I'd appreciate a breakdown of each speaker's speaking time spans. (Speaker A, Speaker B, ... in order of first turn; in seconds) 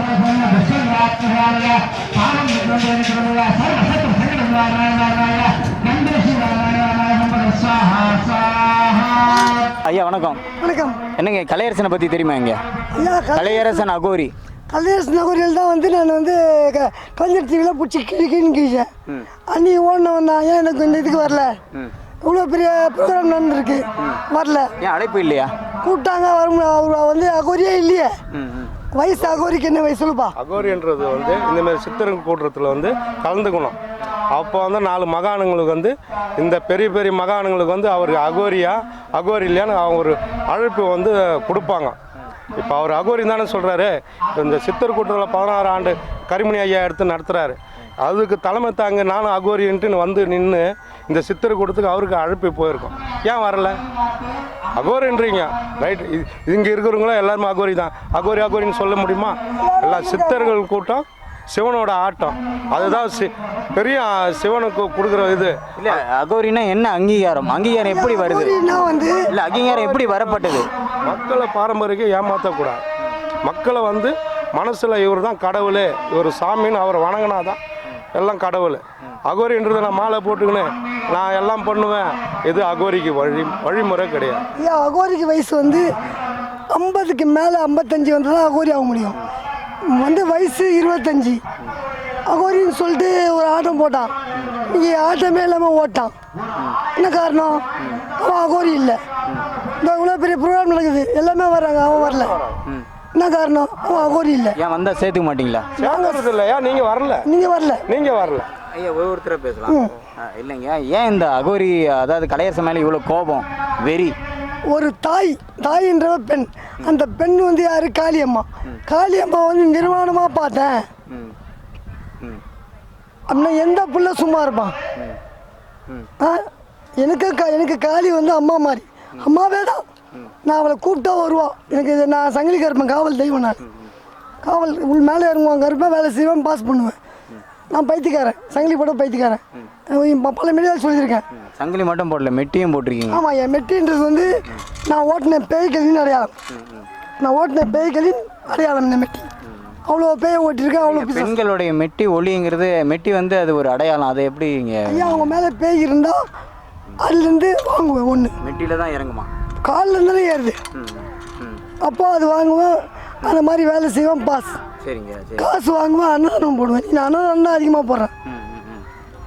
Speaker A: 2.7-3.2, 4.0-4.4, 6.0-6.8, 7.5-7.9, 9.8-10.4, 11.2-12.6, 13.3-14.3, 24.8-25.5, 28.3-28.7, 65.8-70.7, 104.6-105.7, 108.7-114.2, 121.1-121.3, 141.4-143.2, 146.5-146.9, 150.8-155.4, 158.4-159.3, 160.7-161.6, 164.8-165.5, 168.3-168.9
Speaker B: 10.6-11.0, 12.9-13.9, 14.7-18.9, 19.5-21.6, 22.2-24.7, 25.8-28.1, 28.9-30.4, 59.6-60.5, 67.8-69.3, 84.6-85.9, 86.7-89.2, 89.9-91.4, 92.3-94.1, 94.7-96.1, 97.0-97.6, 98.2-99.0, 99.8-102.4, 103.2-104.6, 105.8-106.3, 107.2-107.9, 109.7-110.0, 114.7-120.9, 123.3-124.8, 127.0-129.8, 130.4-133.6, 134.4-137.0, 137.7-141.2, 143.1-146.3, 147.2-149.3, 149.9-151.4, 154.9-156.2, 157.0-158.3, 159.6-160.6, 161.8-164.6, 165.4-168.1
Speaker C: 30.4-33.8, 34.3-42.0, 42.6-53.8, 54.8-66.0, 71.0-72.8, 73.4-77.6, 78.1-84.4, 102.1-102.6, 105.8-107.3, 107.9-108.5